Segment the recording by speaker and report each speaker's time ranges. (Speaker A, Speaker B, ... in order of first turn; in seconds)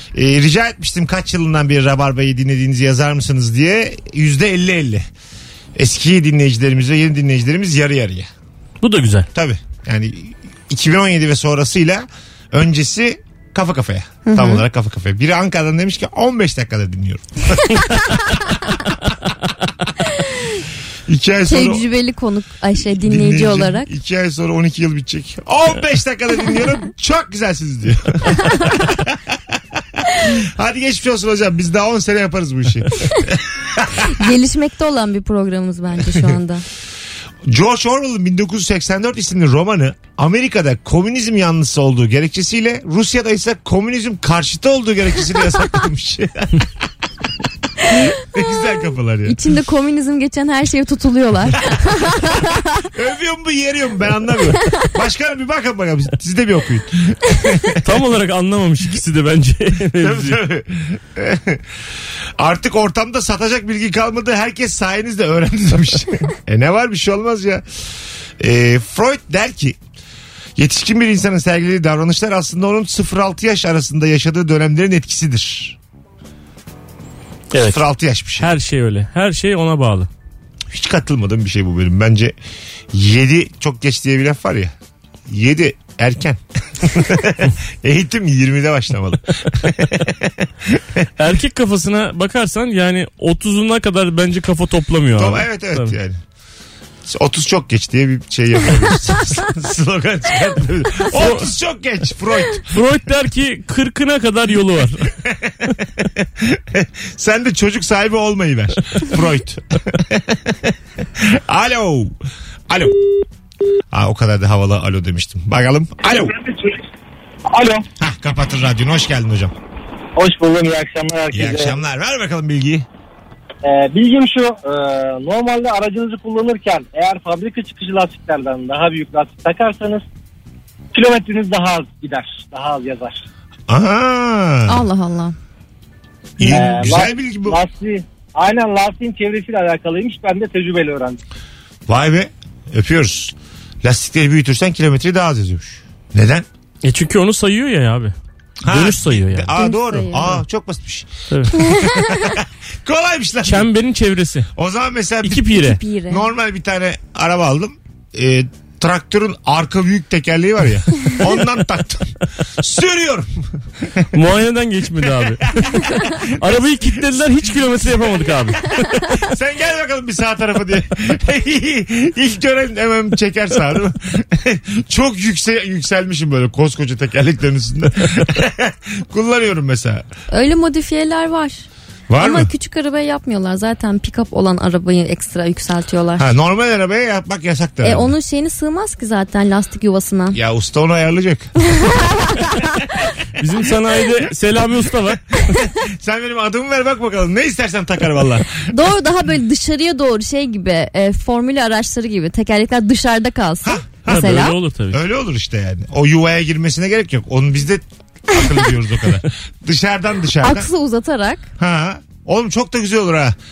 Speaker A: 0.1-5.1, 5.7-8.3, 9.3-18.3, 21.1-21.8, 22.9-34.3, 37.5-46.7, 48.1-49.4, 52.9-57.8, 60.0-61.6, 62.4-67.6, 68.4-69.8, 70.5-75.8, 77.5-78.5, 80.7-82.3, 82.9-84.7, 85.3-91.0, 95.2-96.2, 97.0-102.8, 105.2-105.5, 106.2-112.2, 112.7-113.0, 113.9-116.4, 118.0-119.5, 121.3-122.8, 133.7-134.8, 136.4-137.6, 141.9-146.4, 148.6-151.1, 151.6-153.7, 154.5-164.0, 165.5-167.0, 168.7-180.0, 182.1-182.5, 186.2-188.1, 190.3-191.5, 195.8-198.7, 203.6-210.7, 211.6-213.3
Speaker B: 8.8-9.3, 57.8-60.4, 77.5-77.8, 78.4-80.1, 91.2-96.0, 101.1-101.5, 102.7-105.1, 146.8-148.1, 148.7-149.5, 153.4-154.5, 155.2-155.8, 164.1-165.5, 166.3-168.7, 193.4-195.5, 204.1-205.0
Speaker C: 14.3-14.6, 21.5-23.9, 28.4-28.7, 34.0-36.6, 49.2-52.9, 134.7-135.3, 149.6-150.3, 151.6-152.3, 155.6-156.2, 180.3-181.7, 182.2-186.3, 187.8-190.4, 191.7-192.6, 198.7-204.6, 210.4-211.5
Speaker D: 117.5-117.8, 120.2-121.8, 123.6-130.0, 130.9-133.2, 136.4-141.2